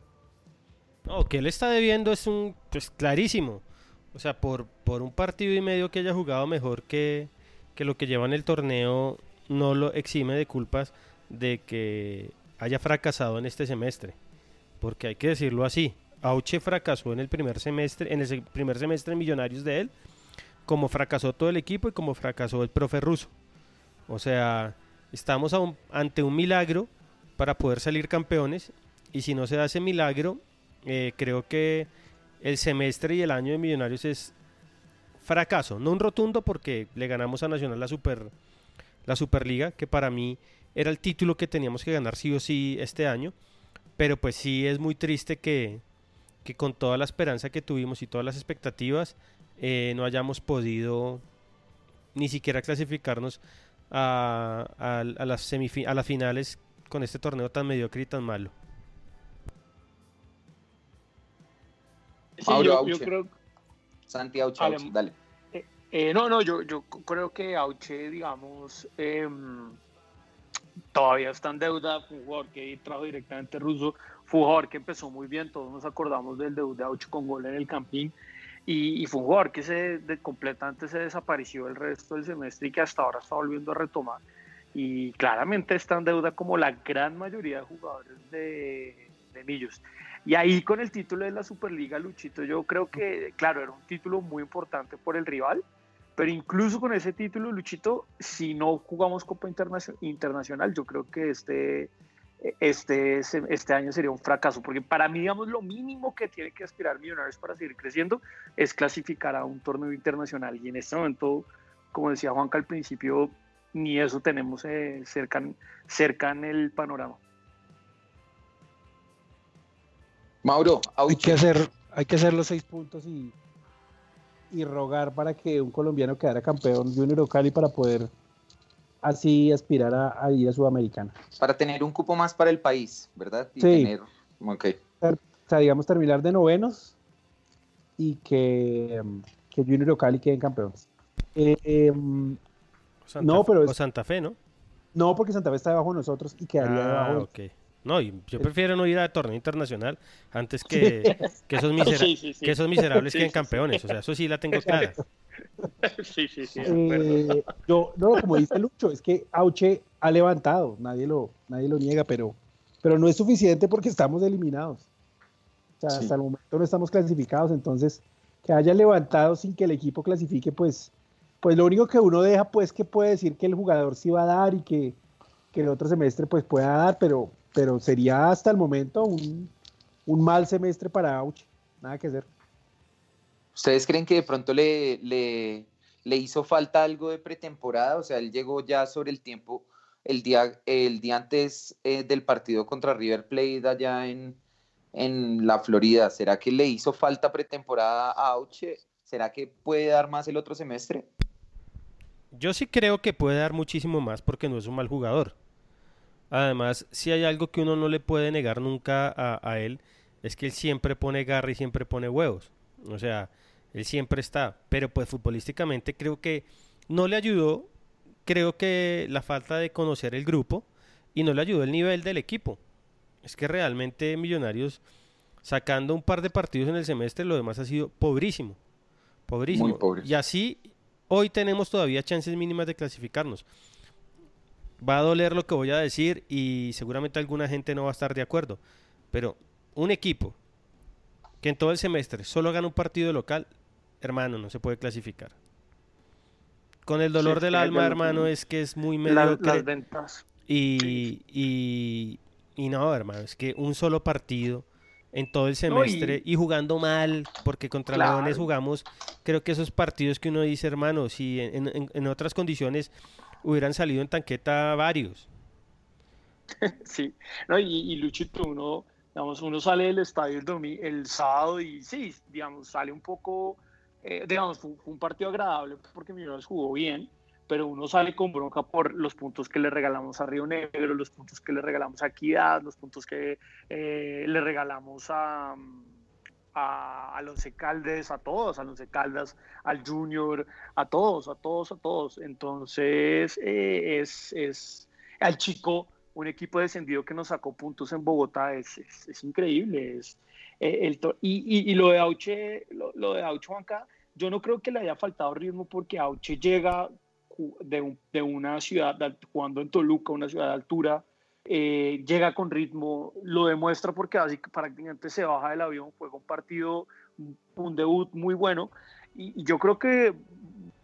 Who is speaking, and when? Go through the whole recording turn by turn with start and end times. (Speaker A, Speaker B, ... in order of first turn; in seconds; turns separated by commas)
Speaker A: 1.1-14.1, Speaker A: 14.8-19.9, Speaker A: 20.6-23.3, Speaker A: 24.1-31.9, Speaker A: 32.4-34.3, Speaker A: 35.2-38.3, Speaker A: 39.0-43.3, Speaker A: 44.0-45.8, Speaker A: 46.4-51.2, Speaker A: 52.1-58.5, Speaker B: 62.4-63.3, Speaker C: 62.5-63.1, Speaker C: 64.1-65.1, Speaker B: 64.6-64.9, Speaker B: 65.5-69.8, Speaker B: 70.9-78.1, Speaker B: 78.7-84.2, Speaker B: 84.7-95.6, Speaker B: 96.2-117.2, Speaker C: 120.4-121.4, Speaker D: 121.1-123.3, Speaker D: 124.5-128.1, Speaker D: 129.0-131.1, Speaker C: 131.4-134.8, Speaker D: 133.6-133.9, Speaker D: 135.0-136.9, Speaker D: 138.0-142.4, Speaker A: 143.1-144.3, Speaker D: 143.2-143.7, Speaker D: 144.9-147.3, Speaker A: 146.6-154.9, Speaker D: 150.7-151.2, Speaker B: 151.8-153.9, Speaker D: 154.7-155.0, Speaker B: 155.8-157.3, Speaker D: 156.6-164.8, Speaker D: 165.8-175.0, Speaker D: 175.5-179.5, Speaker D: 180.1-182.3, Speaker C: 183.5-194.4, Speaker C: 194.9-201.1, Speaker A: 202.3-205.3, Speaker A: 206.3-217.7, Speaker A: 218.2-222.6, Speaker A: 223.2-224.8, Speaker A: 225.4-228.6, Speaker A: 229.3-233.4, Speaker C: 229.5-230.1, Speaker A: 234.8-238.6, Speaker A: 239.1-240.4, Speaker A: 241.4-243.5, Speaker A: 244.0-245.3, Speaker A: 246.8-249.7, Speaker B: 247.2-248.3, Speaker B: 249.1-250.2, Speaker A: 250.4-262.9, Speaker B: 250.8-251.1, Speaker B: 255.7-256.2, Speaker B: 257.9-258.5, Speaker A: 263.4-265.3, Speaker B: 266.6-285.9, Speaker B: 286.5-320.5